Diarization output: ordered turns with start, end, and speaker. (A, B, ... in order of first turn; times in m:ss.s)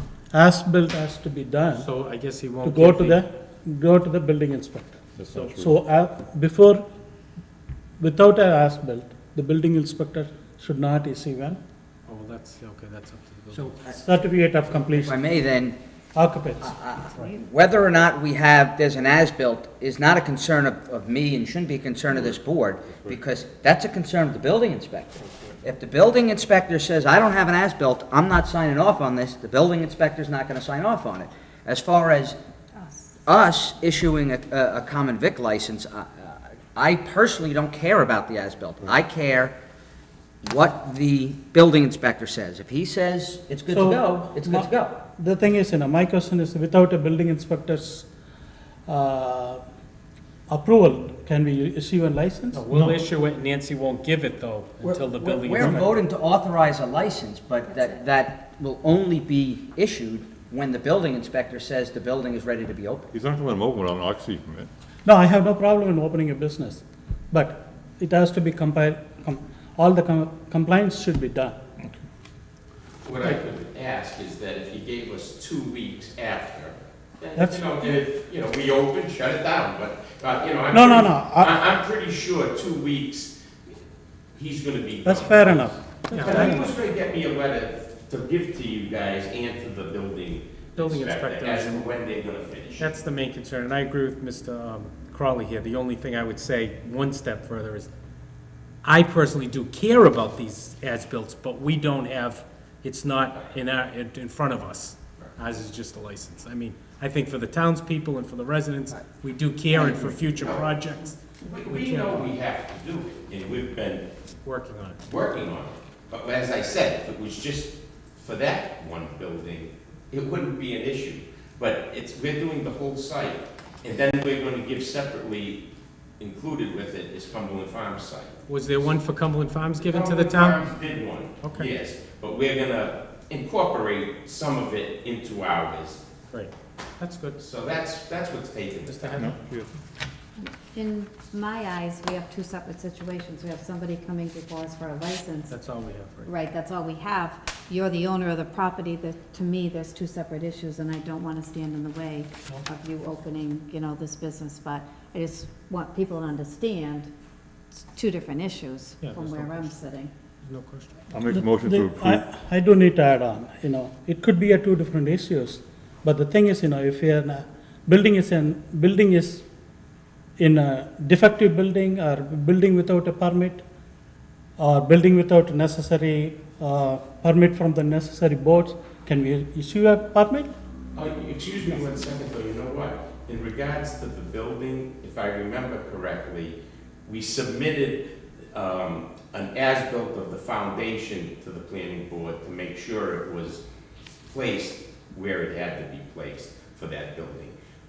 0:00.3-0:01.9 A
0:01.8-0:03.2 B
0:02.6-0:06.8 A
0:05.2-0:05.8 C
0:08.0-0:11.6 A
0:12.1-0:13.8 B
0:13.5-0:14.0 D
0:13.9-0:15.3 A
0:14.9-0:15.8 D
0:16.2-0:16.7 A
0:16.6-0:32.4 D
0:22.1-0:22.4 C
0:25.2-0:25.6 C
0:32.7-0:33.2 E
0:33.3-0:39.5 D
0:40.4-0:45.0 D
0:43.7-0:48.1 A
0:48.9-0:49.6 A
0:50.5-0:53.0 A
0:52.5-0:56.0 B
0:54.8-1:03.1 D
0:55.6-0:55.8 A
1:03.1-1:04.7 C
1:05.0-1:11.6 A
1:13.0-1:23.4 F
1:17.4-1:17.6 A
1:20.7-1:21.5 A
1:24.4-1:32.9 F
1:25.0-1:26.7 A
1:26.1-1:26.5 B
1:30.8-1:31.9 B
1:32.8-1:37.9 B
1:38.8-1:52.3 B
1:49.7-1:50.2 D
1:50.2-1:50.7 F
1:51.4-1:54.1 F
1:54.4-1:55.0 B
1:55.0-2:05.6 F
2:06.2-2:08.4 F
2:08.5-2:10.7 B
2:09.8-2:16.0 F
2:11.4-2:11.7 B
2:16.3-2:17.4 B
2:17.4-2:19.3 F
2:18.8-2:19.4 B
2:19.2-2:19.7 C
2:20.4-2:25.5 E
2:25.5-2:26.3 B
2:26.2-2:37.1 E
2:37.8-2:40.1 E
2:39.0-2:39.8 B
2:40.5-2:40.9 B
2:41.1-2:42.2 C
2:41.3-2:49.5 A
2:50.4-2:53.6 A
2:54.6-3:00.5 A
3:01.0-3:08.0 F
3:08.5-3:13.6 F
3:14.3-3:17.6 F